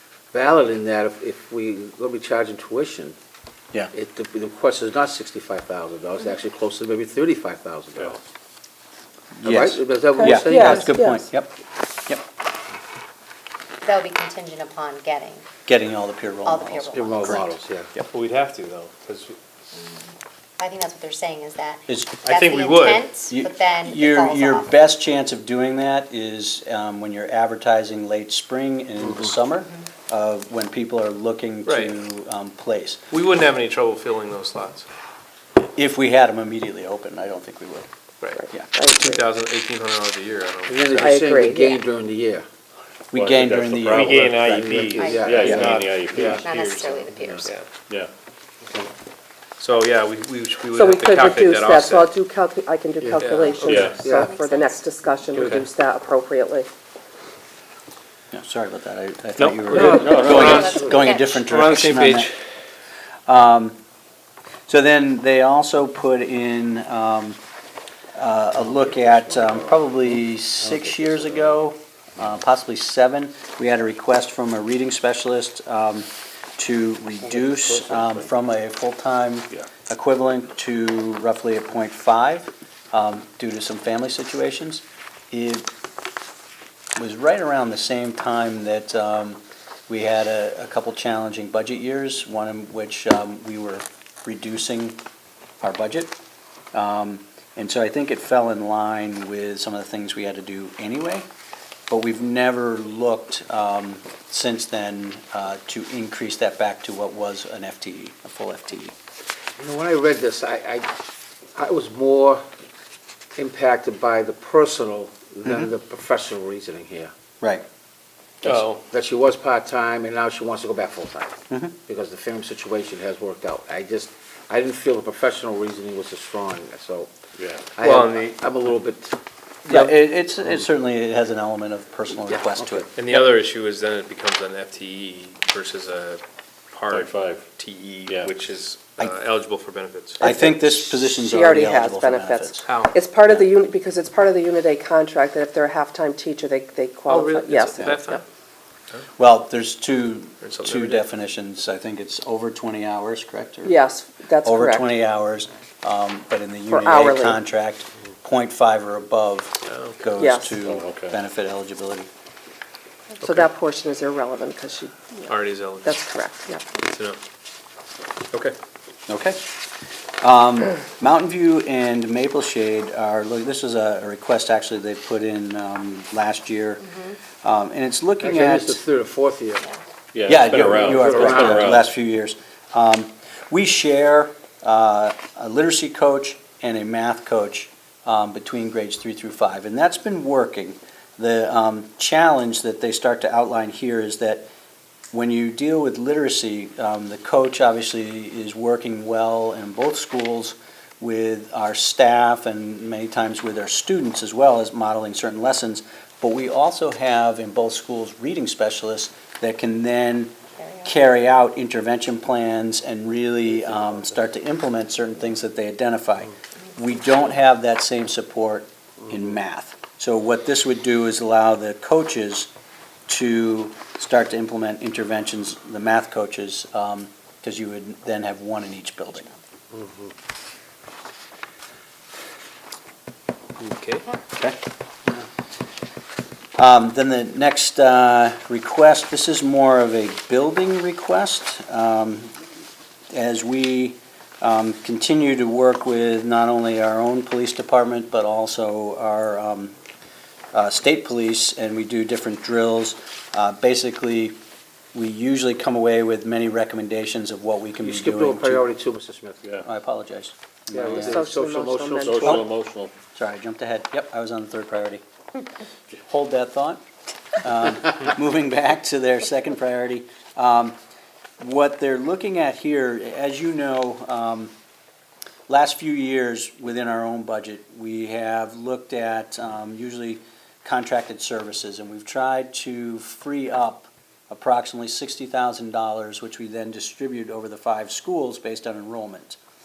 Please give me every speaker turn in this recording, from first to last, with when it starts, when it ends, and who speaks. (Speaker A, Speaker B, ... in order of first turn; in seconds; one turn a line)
Speaker A: 0.3-3.1
Speaker A: 3.9-8.2
Speaker B: 9.4-11.5
Speaker A: 9.4-10.9
Speaker C: 10.2-11.2
Speaker D: 13.8-15.4
Speaker B: 15.7-17.4
Speaker D: 16.4-17.5
Speaker A: 16.9-17.9
Speaker E: 18.1-19.4
Speaker D: 19.7-24.8
Speaker B: 21.9-22.2
Speaker E: 22.2-23.1
Speaker B: 23.3-33.0
Speaker E: 31.7-31.9
Speaker E: 33.1-34.9
Speaker B: 35.8-37.9
Speaker E: 38.2-41.1
Speaker C: 38.4-39.2
Speaker A: 40.7-42.4
Speaker C: 41.0-41.8
Speaker B: 43.1-45.7
Speaker F: 43.1-46.5
Speaker E: 43.9-47.7
Speaker A: 44.7-46.4
Speaker D: 45.0-47.5
Speaker A: 48.6-48.9
Speaker E: 49.6-52.1
Speaker C: 50.7-56.7
Speaker E: 53.2-53.6
Speaker D: 53.3-54.9
Speaker F: 53.7-54.1
Speaker A: 53.7-54.4
Speaker A: 55.3-55.6
Speaker E: 55.3-55.6
Speaker B: 58.3-62.3
Speaker E: 59.4-60.7
Speaker F: 59.7-60.8
Speaker D: 60.1-61.4
Speaker A: 60.5-61.0
Speaker E: 61.3-62.3
Speaker B: 63.3-63.8
Speaker B: 64.7-67.4
Speaker B: 68.2-85.7
Speaker A: 68.6-71.6
Speaker A: 77.2-78.3
Speaker B: 87.0-95.0
Speaker B: 95.6-96.2
Speaker B: 96.7-101.3
Speaker B: 101.9-109.0
Speaker A: 109.6-110.9
Speaker A: 111.5-112.4
Speaker A: 113.4-117.1
Speaker E: 118.4-118.8
Speaker A: 118.5-127.1
Speaker F: 127.4-127.7
Speaker A: 127.8-129.2
Speaker E: 127.8-128.2
Speaker A: 129.7-130.7
Speaker B: 129.7-132.9
Speaker A: 132.3-133.2
Speaker E: 133.0-140.2
Speaker F: 136.9-137.5
Speaker F: 138.1-138.3
Speaker C: 140.2-148.2
Speaker B: 140.2-142.6
Speaker E: 142.7-143.0
Speaker E: 147.1-148.2
Speaker B: 149.2-153.8
Speaker E: 150.4-151.1
Speaker C: 153.6-154.9
Speaker B: 154.4-162.1
Speaker C: 156.7-157.4
Speaker E: 159.7-160.0
Speaker C: 160.2-160.6
Speaker F: 160.6-161.2
Speaker C: 163.2-166.7
Speaker E: 163.2-163.5
Speaker E: 165.3-166.0
Speaker E: 166.8-167.2
Speaker B: 169.1-169.5
Speaker B: 170.2-178.8
Speaker A: 178.2-179.7
Speaker F: 180.1-181.9
Speaker B: 180.3-194.5
Speaker A: 180.7-181.8
Speaker B: 195.1-210.3
Speaker B: 210.8-222.5
Speaker B: 223.1-229.3
Speaker E: 233.6-234.1
Speaker B: 236.6-242.3
Speaker B: 243.1-249.7
Speaker B: 250.5-254.3
Speaker B: 254.9-258.7
Speaker A: 257.8-259.5
Speaker B: 259.6-261.2
Speaker A: 260.7-262.4
Speaker C: 260.9-262.5
Speaker F: 262.1-262.9
Speaker B: 263.2-265.0
Speaker B: 265.9-266.8
Speaker B: 267.4-270.8
Speaker B: 271.4-274.5
Speaker B: 275.5-289.4